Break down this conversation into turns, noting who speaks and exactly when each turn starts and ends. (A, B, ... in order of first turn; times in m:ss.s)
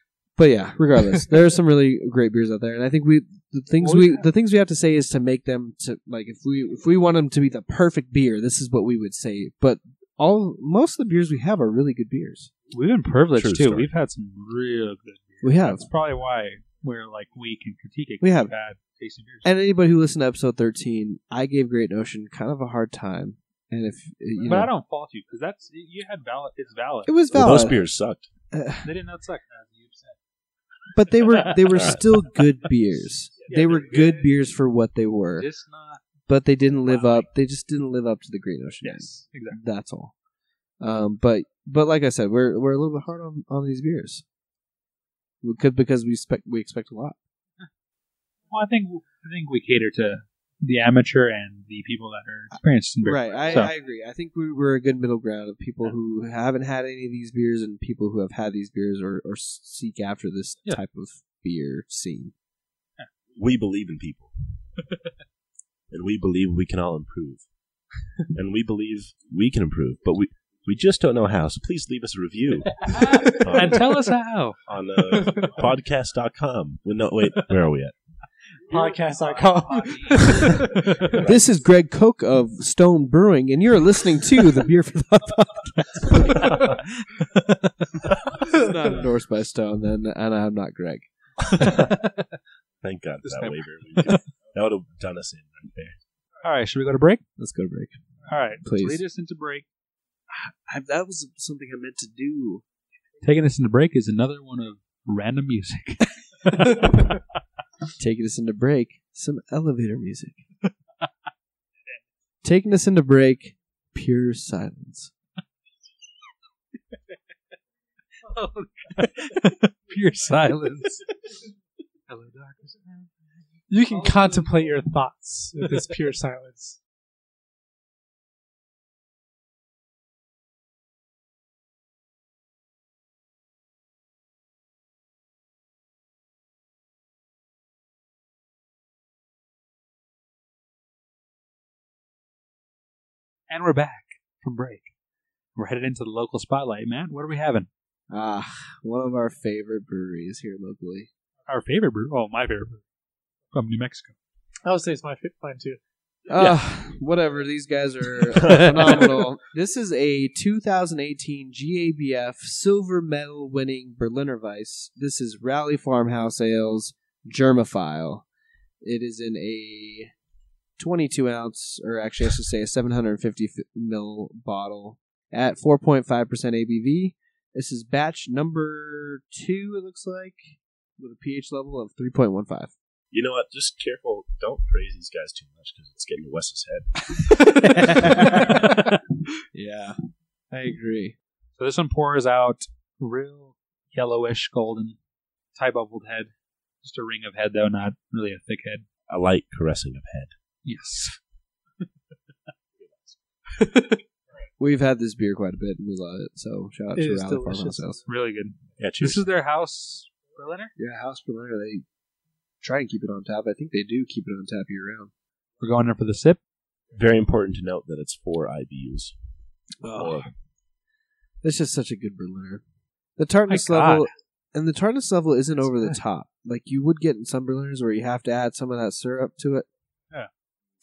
0:00.4-0:12.5 A
0:03.8-0:04.2 B
0:12.7-0:19.4 B
0:13.3-0:13.9 C
0:15.4-0:15.9 A
0:18.2-0:18.5 A
0:19.4-0:24.7 A
0:24.4-0:27.2 B
0:27.0-0:27.8 A
0:27.3-0:28.3 C
0:28.5-0:28.9 A
0:28.8-0:30.2 B
0:30.9-0:35.5 A
0:31.3-0:31.7 B
0:31.7-0:32.0 C
0:33.5-0:34.1 B
0:35.4-0:36.0 B
0:36.3-0:40.1 A
0:36.9-0:37.2 B
0:38.8-0:39.6 B
0:40.8-0:44.2 A
0:45.4-0:47.2 A
0:48.5-0:53.7 B
0:53.0-1:02.3 A
1:03.4-1:04.3 C
1:05.9-1:07.4 C
1:08.3-1:14.0 C
1:12.8-1:14.6 B
1:14.6-1:17.9 C
1:18.7-1:21.1 D
1:18.7-1:21.3 B
1:21.1-1:21.4 C
1:21.2-1:26.8 A
1:26.4-1:26.8 B
1:28.4-1:32.1 A
1:31.5-1:32.0 C
1:32.8-1:36.0 C
1:33.2-1:34.2 B
1:36.4-1:37.2 B
1:37.4-1:37.9 A
1:38.3-1:39.6 B
1:38.6-1:39.0 A
1:40.3-1:42.6 A
1:43.2-1:47.2 B
1:48.0-1:50.4 A
1:52.4-1:55.1 A
1:58.2-2:01.2 B
2:02.1-2:03.1 B
2:03.7-2:06.8 D
2:04.0-2:04.3 B
2:23.5-2:24.9 B
2:25.6-2:27.7 B
2:28.1-2:31.1 A
2:31.5-2:32.8 B
2:33.5-2:34.1 B
2:34.6-2:35.8 D
2:36.3-2:48.2 A
2:38.4-2:39.2 C
2:48.8-2:50.1 A
2:50.8-3:02.7 A
3:03.1-3:07.2 C
3:07.2-3:08.9 A
3:07.9-3:08.9 B
3:09.5-3:10.0 A
3:10.5-3:11.2 A
3:11.6-3:15.0 B
3:15.6-3:18.8 B
3:19.1-3:20.3 C
3:20.6-3:21.2 B
3:22.8-3:23.2 C
3:24.6-3:28.0 A
3:26.9-3:27.8 D
3:28.0-3:30.7 B
3:28.8-3:29.2 C
3:30.8-3:31.8 A
3:32.6-3:35.1 A
3:35.6-3:36.4 B
3:36.9-3:39.1 C
3:39.8-3:40.3 A
3:39.9-3:40.2 C
3:41.4-3:42.6 A
3:43.2-3:49.6 A
3:43.5-3:44.1 B